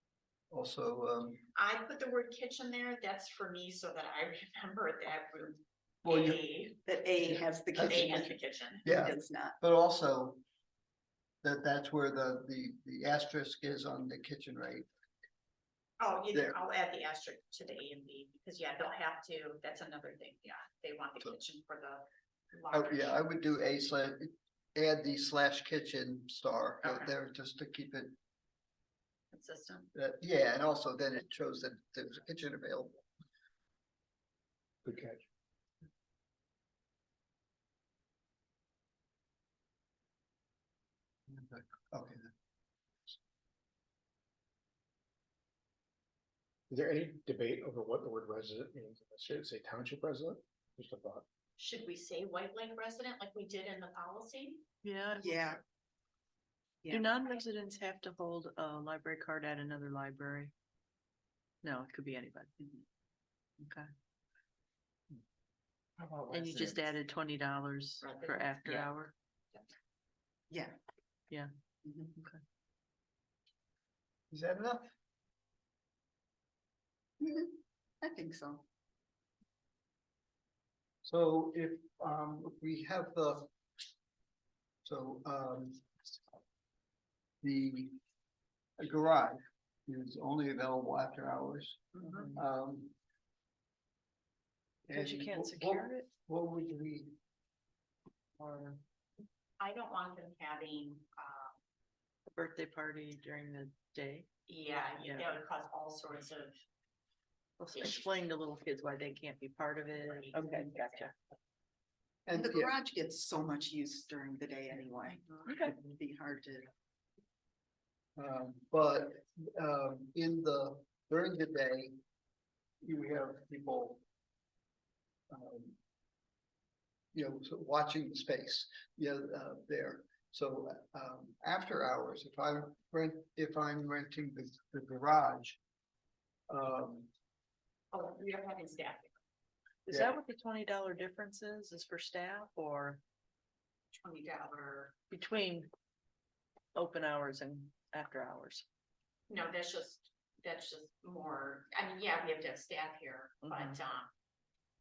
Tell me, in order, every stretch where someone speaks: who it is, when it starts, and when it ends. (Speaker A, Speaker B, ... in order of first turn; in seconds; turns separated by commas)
Speaker A: 0.5-1.4, Speaker B: 1.6-6.8, Speaker A: 6.0-6.4, Speaker C: 6.8-9.6, Speaker A: 7.2-8.1, Speaker B: 7.8-8.8, Speaker A: 8.8-10.4, Speaker A: 11.4-14.9, Speaker B: 16.0-23.5, Speaker A: 22.7-28.2, Speaker B: 26.8-27.1, Speaker B: 29.3-29.9, Speaker A: 29.9-33.0, Speaker D: 34.8-35.2, Speaker A: 41.3-42.3, Speaker D: 46.7-51.2, Speaker B: 51.6-54.6, Speaker E: 54.8-55.5, Speaker C: 55.2-55.6, Speaker E: 56.9-60.5, Speaker E: 61.6-62.5, Speaker E: 63.6-63.9, Speaker D: 66.0-66.8, Speaker E: 66.3-69.1, Speaker B: 68.0-68.8, Speaker C: 70.5-70.8, Speaker C: 71.8-72.1, Speaker A: 74.3-74.9, Speaker C: 77.2-78.6, Speaker A: 81.0-83.5, Speaker A: 84.8-85.9, Speaker A: 87.4-88.0, Speaker A: 88.8-93.0, Speaker E: 92.0-92.4, Speaker A: 94.9-97.2, Speaker E: 94.9-96.1, Speaker E: 98.4-98.8, Speaker B: 99.6-101.5, Speaker E: 102.3-104.3, Speaker B: 104.5-106.6, Speaker E: 104.9-105.4, Speaker E: 107.6-111.1, Speaker B: 110.0-110.9, Speaker C: 110.3-110.7, Speaker A: 112.2-112.7, Speaker C: 112.3-116.7, Speaker E: 115.4-115.8, Speaker A: 118.2-122.0, Speaker A: 122.8-124.0, Speaker A: 125.3-125.8, Speaker A: 127.1-135.6, Speaker A: 136.5-137.1, Speaker B: 137.9-139.2, Speaker E: 139.9-143.0, Speaker A: 139.9-140.1, Speaker B: 143.9-144.9, Speaker E: 145.1-145.7, Speaker E: 146.7-148.7, Speaker B: 149.3-154.1, Speaker E: 153.4-153.8